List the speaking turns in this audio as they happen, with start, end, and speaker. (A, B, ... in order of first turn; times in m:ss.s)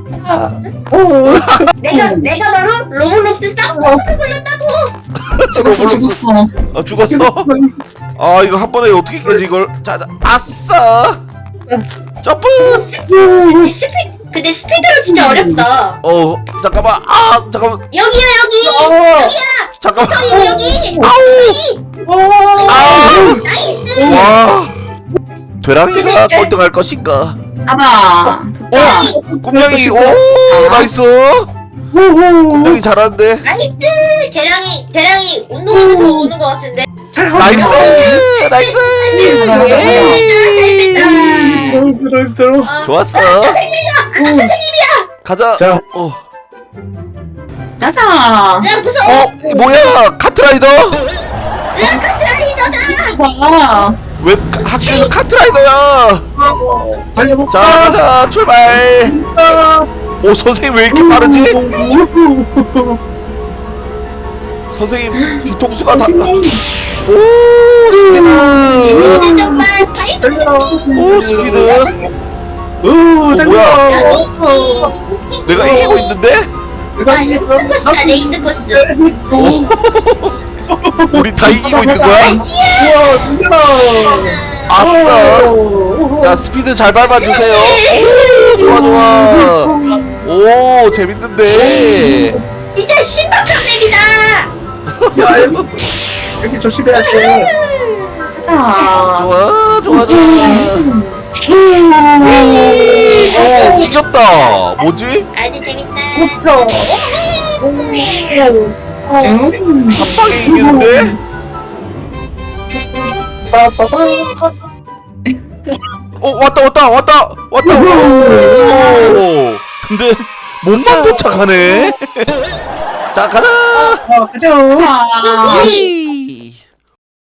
0:00.2-0:02.2 A
0:01.3-0:01.7 B
0:01.8-0:04.9 C
0:03.7-0:04.0 A
0:05.2-0:06.2 B
0:05.5-0:06.5 D
0:06.7-0:07.5 B
0:07.0-0:07.8 A
0:08.2-0:11.2 B
0:12.2-0:12.8 B
0:12.6-0:16.0 C
0:13.1-0:13.7 A
0:15.1-0:15.6 A
0:16.0-0:17.8 B
0:17.9-0:21.8 C
0:18.6-0:19.4 A
0:19.8-0:20.3 B
0:20.3-0:21.1 A
0:21.0-0:21.6 B
0:22.1-0:24.5 A
0:22.6-0:24.3 C
0:22.7-0:23.4 B
0:24.1-0:24.8 B
0:25.6-0:27.4 B
0:25.9-0:26.5 C
0:27.6-0:29.1 D
0:28.7-0:31.5 B
0:28.8-0:29.2 C
0:28.8-0:30.2 A
0:30.5-0:30.9 D
0:31.9-0:32.8 A
0:32.6-0:33.5 B
0:33.4-0:36.9 C
0:35.7-0:36.3 A
0:37.1-0:38.2 A
0:37.4-0:41.8 B
0:37.4-0:37.9 D
0:37.6-0:41.8 C
0:39.1-0:40.1 A
0:39.2-0:40.2 D
0:41.0-0:42.7 A
0:42.6-0:45.1 C
0:42.8-0:43.6 B
0:44.2-0:44.5 A
0:45.2-0:46.2 B
0:45.6-0:45.8 A
0:47.8-0:48.7 D
0:48.6-0:49.3 C
0:49.0-0:51.0 B
0:49.4-0:49.9 A
0:51.7-0:53.2 C
0:52.8-0:54.0 D
0:54.2-0:56.2 B
0:54.8-0:55.1 C
0:56.4-0:58.0 A
0:57.5-0:59.2 B
0:59.0-0:59.9 A
1:00.2-1:01.6 B
1:00.9-1:03.0 A
1:04.7-1:06.3 B
1:05.9-1:06.6 D
1:07.1-1:09.3 B
1:07.9-1:09.6 A
1:08.7-1:10.8 C
1:10.2-1:11.8 A
1:10.9-1:11.9 B
1:11.1-1:11.6 D
1:12.8-1:14.9 A
1:13.3-1:14.2 B
1:13.9-1:16.1 C
1:15.5-1:16.5 B
1:15.5-1:16.0 A
1:17.0-1:19.6 A
1:17.1-1:18.9 C
1:19.3-1:20.4 B
1:20.7-1:21.4 A
1:21.1-1:22.4 B
1:21.5-1:22.4 D
1:22.2-1:24.8 C
1:22.8-1:26.4 A
1:24.7-1:25.5 B
1:26.2-1:29.7 B
1:27.2-1:28.7 C
1:28.5-1:30.2 A
1:30.2-1:32.4 B
1:31.5-1:32.4 A
1:32.8-1:34.5 C
1:34.9-1:35.6 B
1:35.1-1:35.8 A
1:36.4-1:37.5 A
1:36.9-1:38.2 C
1:38.3-1:39.3 D
1:39.0-1:40.9 B
1:39.9-1:41.2 D
1:39.9-1:40.7 A
1:41.4-1:43.8 A
1:42.2-1:45.3 B
1:42.3-1:44.8 C
1:45.3-1:48.4 C
1:46.1-1:46.9 A
1:47.6-1:49.4 A
1:49.2-1:50.2 D
1:49.9-1:51.2 B
1:50.4-1:51.1 A
1:53.5-1:54.6 A
1:55.3-1:55.7 D
1:56.2-2:02.3 B
1:57.6-1:59.2 A
1:58.6-1:59.1 C
2:00.8-2:01.2 A
2:03.1-2:04.0 B
2:03.7-2:04.0 C
2:04.1-2:04.9 A
2:04.7-2:05.8 D
2:05.2-2:05.9 C
2:05.4-2:06.6 B